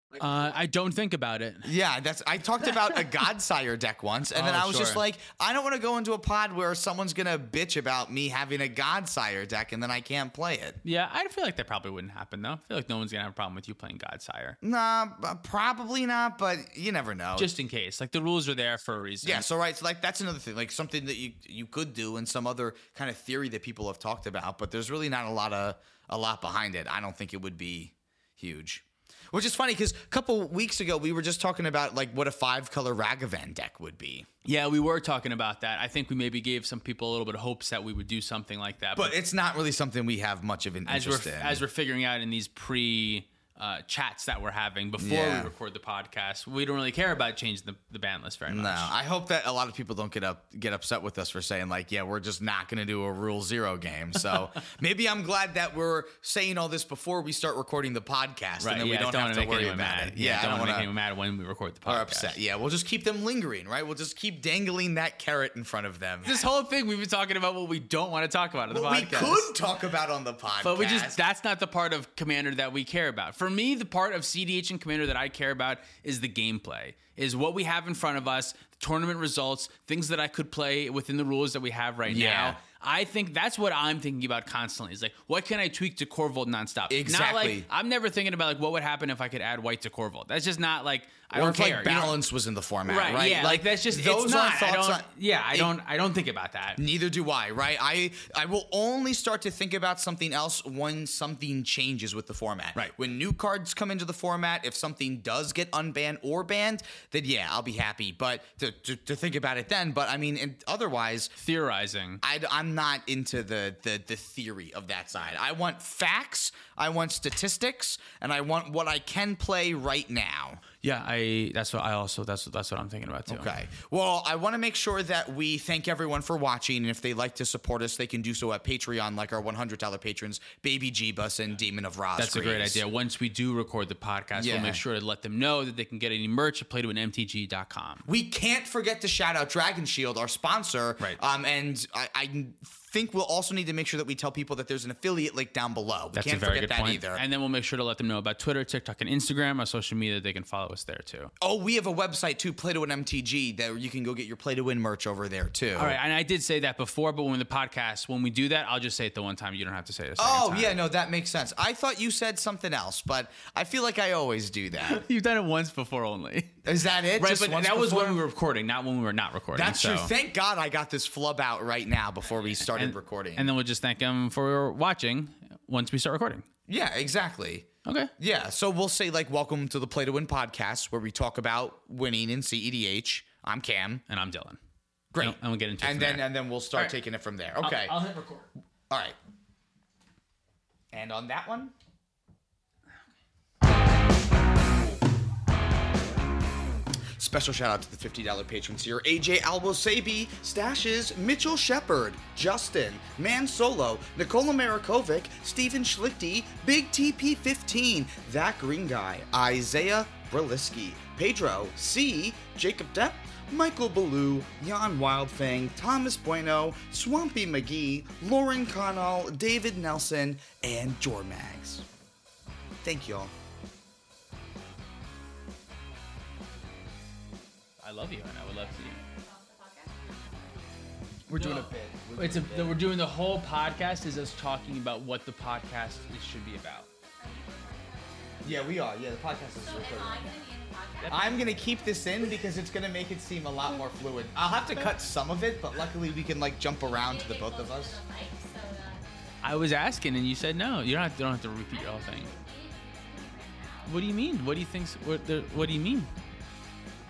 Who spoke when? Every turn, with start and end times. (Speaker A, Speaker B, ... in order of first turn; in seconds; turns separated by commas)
Speaker A: 0.1-1.7, Speaker B: 1.6-10.8, Speaker A: 4.3-5.0, Speaker A: 10.8-14.6, Speaker B: 14.6-17.5, Speaker A: 17.4-19.5, Speaker B: 19.2-34.3, Speaker A: 34.4-39.1, Speaker B: 39.0-41.6, Speaker A: 40.9-48.9, Speaker B: 45.0-45.5, Speaker B: 48.5-60.9, Speaker A: 58.6-62.4, Speaker B: 61.9-66.4, Speaker A: 66.2-69.5, Speaker B: 68.7-71.2, Speaker A: 70.6-92.2, Speaker B: 82.0-82.6, Speaker B: 86.9-87.7, Speaker B: 91.3-95.7, Speaker A: 92.8-96.8, Speaker B: 96.8-111.3, Speaker A: 111.4-112.2, Speaker B: 112.2-120.6, Speaker A: 120.8-123.5, Speaker B: 123.3-132.8, Speaker A: 132.2-138.0, Speaker B: 134.3-134.8, Speaker B: 138.1-147.2, Speaker A: 146.1-151.3, Speaker B: 151.4-156.0, Speaker A: 155.8-160.8, Speaker B: 160.2-165.0, Speaker A: 164.8-166.6, Speaker B: 166.6-168.2, Speaker A: 167.2-170.1, Speaker B: 169.5-173.5, Speaker A: 172.5-176.4, Speaker B: 176.7-184.0, Speaker A: 177.8-178.1, Speaker A: 184.1-184.6, Speaker B: 185.1-188.0, Speaker A: 185.2-186.9, Speaker A: 187.6-188.5, Speaker B: 188.9-189.2, Speaker B: 190.9-191.7, Speaker B: 197.2-221.8, Speaker B: 222.8-223.3, Speaker A: 227.8-229.0, Speaker C: 228.5-230.8, Speaker B: 231.3-232.8, Speaker A: 231.3-236.9, Speaker C: 237.2-238.8, Speaker B: 238.4-240.3, Speaker C: 239.6-242.0, Speaker B: 241.1-248.0, Speaker C: 246.8-249.7, Speaker A: 249.4-252.3, Speaker C: 251.7-254.0, Speaker A: 253.9-256.1